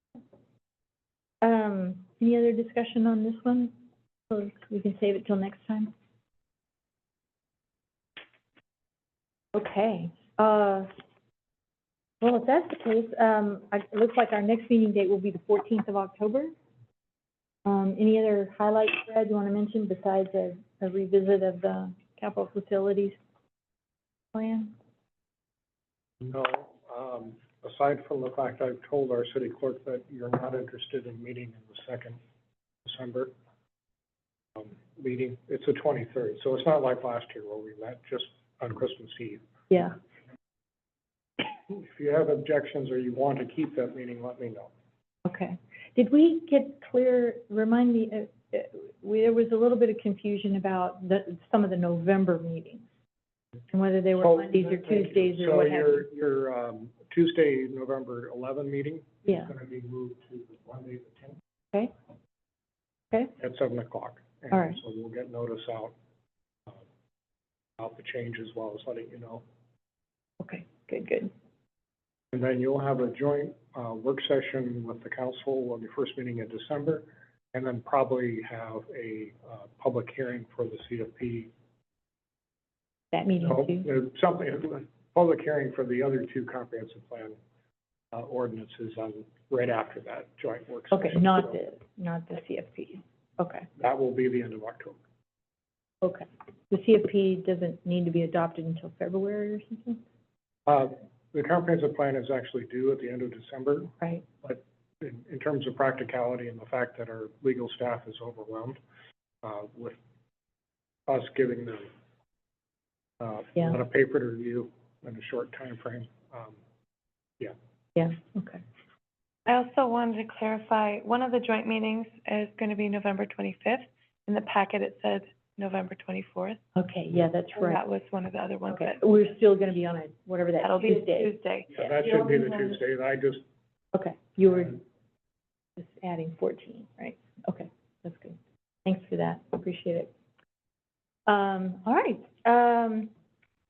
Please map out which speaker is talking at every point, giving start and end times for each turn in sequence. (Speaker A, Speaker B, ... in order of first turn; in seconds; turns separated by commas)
Speaker A: 1.4-3.7, Speaker A: 4.3-5.9, Speaker A: 9.5-10.9, Speaker A: 12.2-16.5, Speaker A: 17.6-23.2, Speaker A: 24.3-24.7, Speaker B: 26.2-32.2, Speaker B: 32.8-33.3, Speaker B: 34.5-39.4, Speaker A: 39.7-40.0, Speaker B: 41.7-44.7, Speaker A: 45.2-52.8, Speaker A: 53.7-56.1, Speaker B: 54.2-61.4, Speaker B: 63.4-65.9, Speaker A: 64.5-64.8, Speaker B: 67.8-69.4, Speaker A: 70.4-71.3, Speaker B: 72.3-81.5, Speaker A: 83.1-83.9, Speaker B: 83.4-87.4, Speaker B: 88.1-91.6, Speaker A: 90.9-93.7, Speaker B: 93.8-95.0, Speaker A: 96.0-100.0, Speaker B: 100.7-108.8, Speaker B: 109.4-110.0, Speaker B: 111.1-111.9, Speaker B: 113.2-116.6, Speaker A: 118.0-118.6, Speaker C: 119.5-126.6, Speaker A: 126.7-127.8, Speaker C: 127.5-129.0, Speaker A: 128.7-131.9, Speaker C: 130.6-131.7, Speaker B: 131.7-133.4, Speaker A: 133.9-134.8, Speaker A: 135.8-140.1, Speaker A: 141.3-143.1